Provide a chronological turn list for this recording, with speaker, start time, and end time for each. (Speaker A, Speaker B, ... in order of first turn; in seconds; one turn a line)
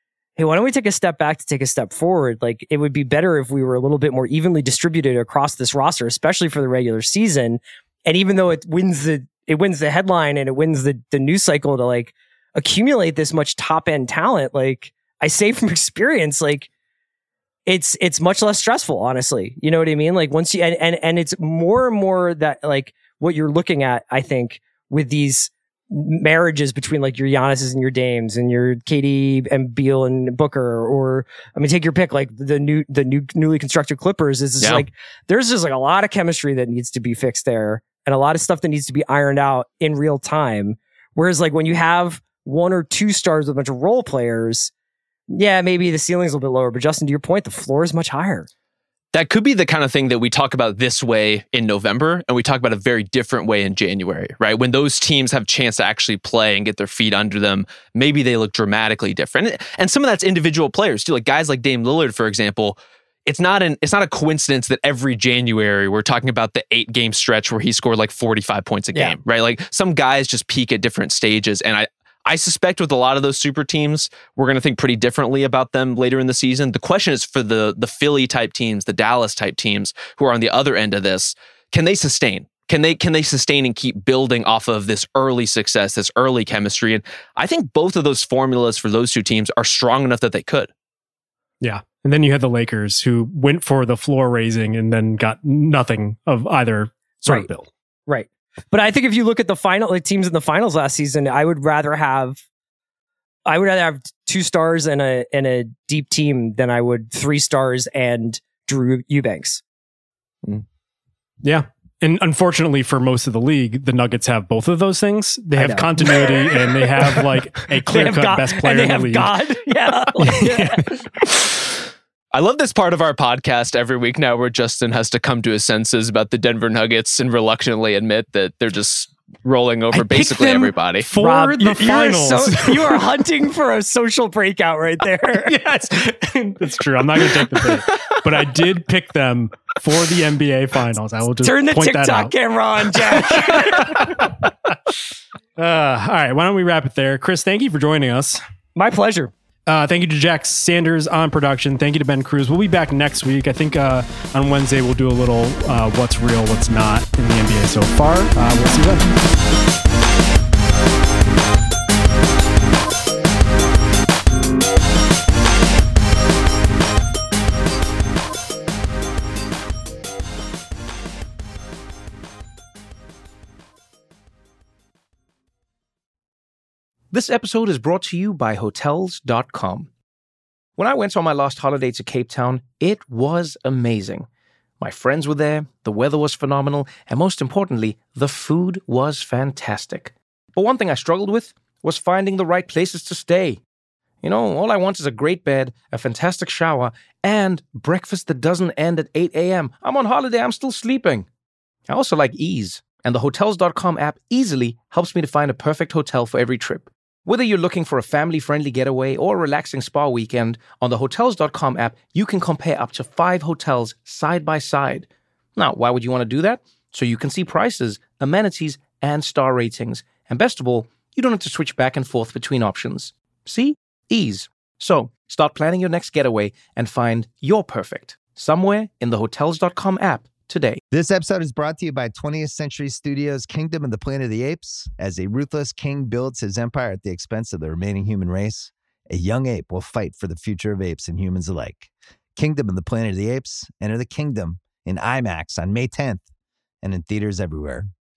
Speaker A: 0.4-16.7
Speaker A: 17.7-44.7
Speaker B: 34.6-34.9
Speaker A: 45.3-48.5
Speaker B: 49.1-90.7
Speaker C: 91.6-97.7
Speaker A: 98.1-102.4
Speaker A: 103.5-109.6
Speaker C: 111.4-119.3
Speaker A: 115.6-117.3
Speaker A: 117.9-121.1
Speaker C: 120.2-120.9
Speaker B: 122.3-131.1
Speaker C: 129.9-133.0
Speaker A: 131.2-135.5
Speaker C: 135.4-142.3
Speaker A: 137.6-138.0
Speaker A: 141.4-144.3
Speaker C: 142.9-144.5
Speaker C: 145.6-148.4
Speaker A: 148.7-149.3
Speaker C: 149.7-159.1
Speaker D: 177.1-179.9
Speaker D: 180.8-184.3
Speaker D: 184.8-193.6
Speaker D: 194.2-201.3
Speaker D: 201.9-230.8
Speaker E: 230.9-246.3
Speaker E: 246.8-247.9